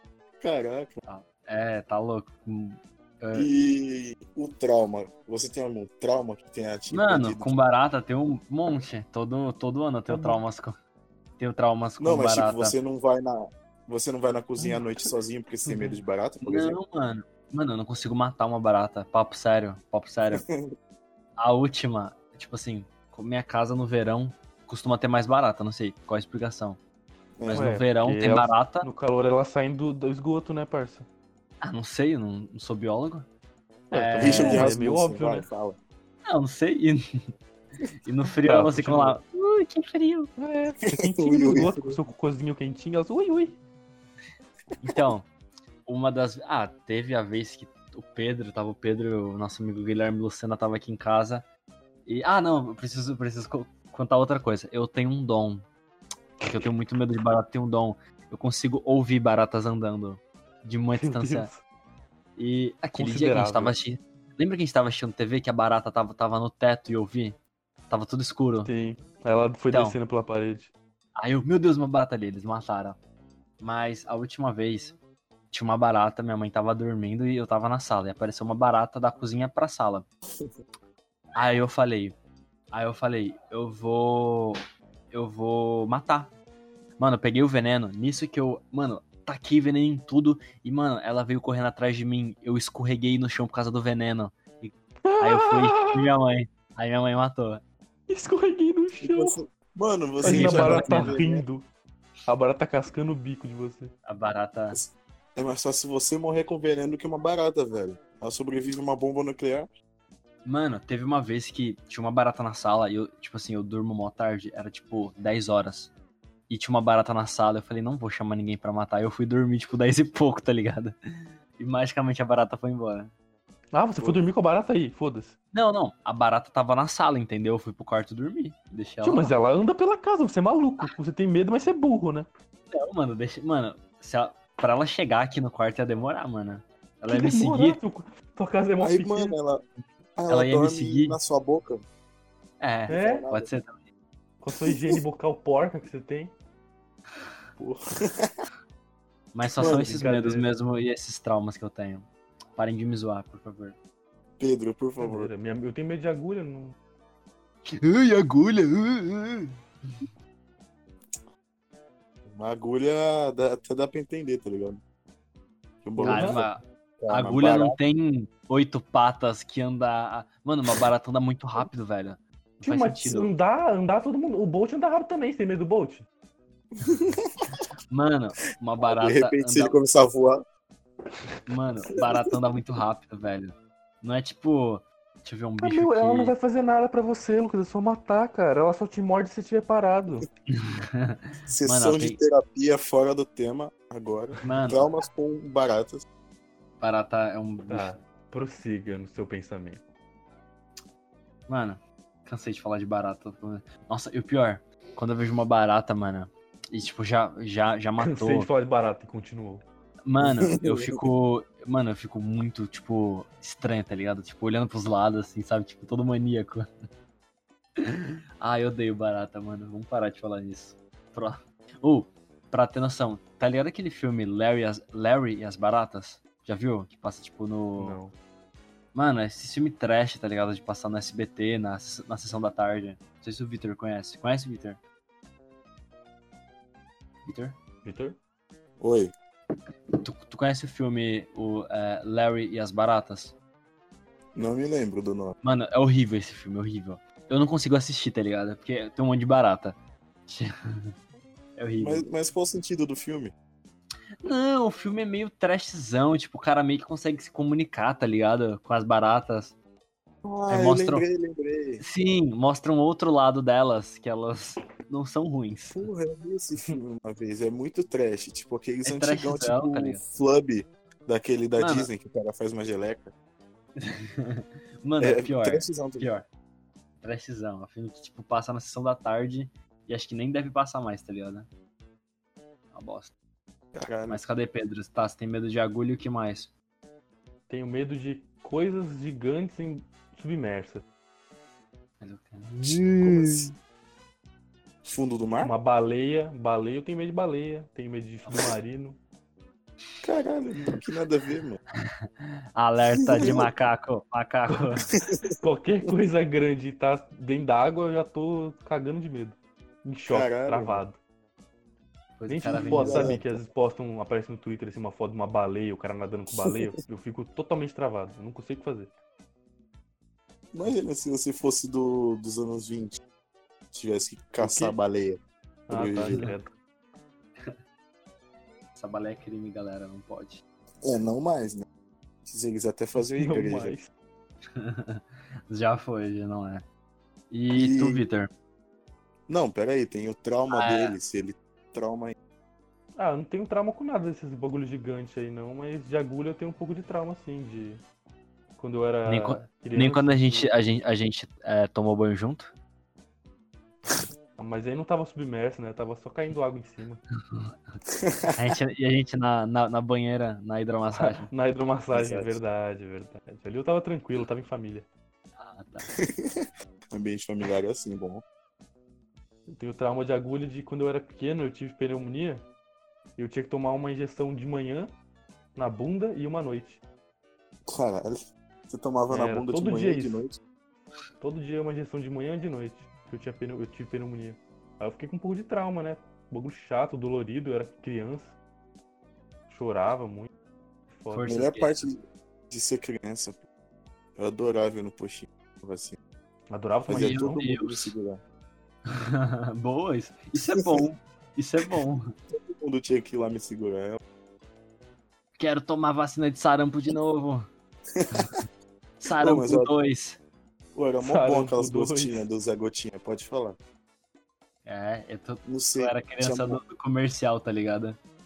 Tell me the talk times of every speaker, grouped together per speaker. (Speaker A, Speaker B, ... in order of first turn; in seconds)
Speaker A: 0.4-1.0, 3.3-7.6, 12.0-16.8, 20.3-20.7, 27.4-27.7, 34.1-35.8, 41.0-42.0, 99.0-101.4, 104.7-109.7, 124.0-124.2, 138.8-139.6, 140.2-141.8, 142.9-143.5, 144.7-144.9, 147.6-148.3, 149.6-149.9, 154.4-155.3, 162.2-164.8, 165.8-166.5, 167.0-167.8, 176.8-177.3, 178.8-180.4, 191.5-196.0, 210.2-211.1, 238.8-239.1, 244.3-245.3, 251.8-253.3, 260.2-261.8, 265.7-273.1, 275.0-276.1, 283.7-284.2, 292.6-293.5, 294.8-295.5, 300.0-301.6, 303.2-303.5, 310.1-310.8, 312.5-313.4, 316.3-316.7, 320.5-323.0, 323.7-325.2, 325.7-326.3, 330.8-331.6, 332.2-333.8, 337.5-338.0, 339.3-342.1, 358.0-358.5, 361.9-362.4, 366.0-368.2, 377.7-380.4, 391.2-393.4, 394.1-396.0, 396.9-398.2, 400.4-400.8, 402.3-404.0, 407.9-408.4, 409.2-409.7, 410.7-413.6, 415.5-416.6
Speaker B: 1.0-3.5, 6.9-10.8, 11.4-12.8, 16.4-20.4, 21.4-26.8, 27.4-28.9, 31.6-33.3, 33.9-34.7, 36.3-37.0, 38.0-40.3, 44.8-45.3, 45.8-51.5, 52.0-55.6, 56.4-61.5, 62.4-68.7, 69.7-70.0, 71.2-73.0, 73.6-75.0, 75.5-80.1, 81.3-82.2, 82.7-84.6, 85.1-86.3, 87.0-97.6, 100.2-101.2, 104.0-104.8, 110.4-115.9, 116.5-121.0, 121.5-123.1, 125.5-129.3, 132.7-137.8, 140.3-141.2, 142.6-143.8, 149.3-153.8, 157.7-160.1, 166.0-173.3, 176.9-177.1, 177.9-179.8, 181.4-186.3, 190.5-192.2, 194.4-194.9, 196.8-197.9, 201.5-208.5, 210.0-216.6, 217.8-228.0, 228.9-234.8, 237.2-237.6, 240.0-243.3, 245.4-250.5, 251.6-252.1, 254.2-259.6, 260.5-261.1, 261.8-265.9, 268.8-270.0, 271.6-271.9, 273.8-276.3, 277.0-281.5, 282.7-283.1, 284.1-286.5, 292.0-293.5, 301.8-304.8, 312.2-313.2, 328.7-330.4, 334.5-336.6, 337.3-338.3, 340.5-340.9, 349.0-352.5, 357.2-357.6, 358.4-361.3, 365.4-366.0, 391.1-391.9, 396.9-397.9, 398.9-402.0, 405.4-407.4, 409.0-410.2, 414.6-418.0
Speaker C: 10.1-10.4, 14.6-15.1, 15.6-16.0, 27.5-31.1, 33.9-35.5, 38.4-39.2, 40.4-43.6, 60.9-61.6, 62.9-63.7, 68.6-70.7, 95.0-96.0, 98.1-99.3, 100.2-101.7, 102.3-103.9, 123.7-125.3, 129.0-132.2, 137.1-139.3, 142.9-143.3, 144.4-146.3, 149.7-150.5, 155.0-156.7, 166.0-166.4, 172.6-176.1, 185.6-190.2, 197.7-199.8, 208.0-209.6, 227.8-228.1, 237.8-238.2, 287.5-290.8, 295.4-299.0, 304.7-311.0, 312.3-318.9, 324.4-324.8, 325.7-326.5, 333.0-333.9, 343.0-347.8, 348.6-350.5, 354.4-357.0, 361.0-364.9, 369.5-372.4, 373.2-374.9, 375.6-376.8, 379.1-380.2, 381.2-388.4, 389.5-390.3, 390.9-391.3, 396.5-397.4, 411.0-412.2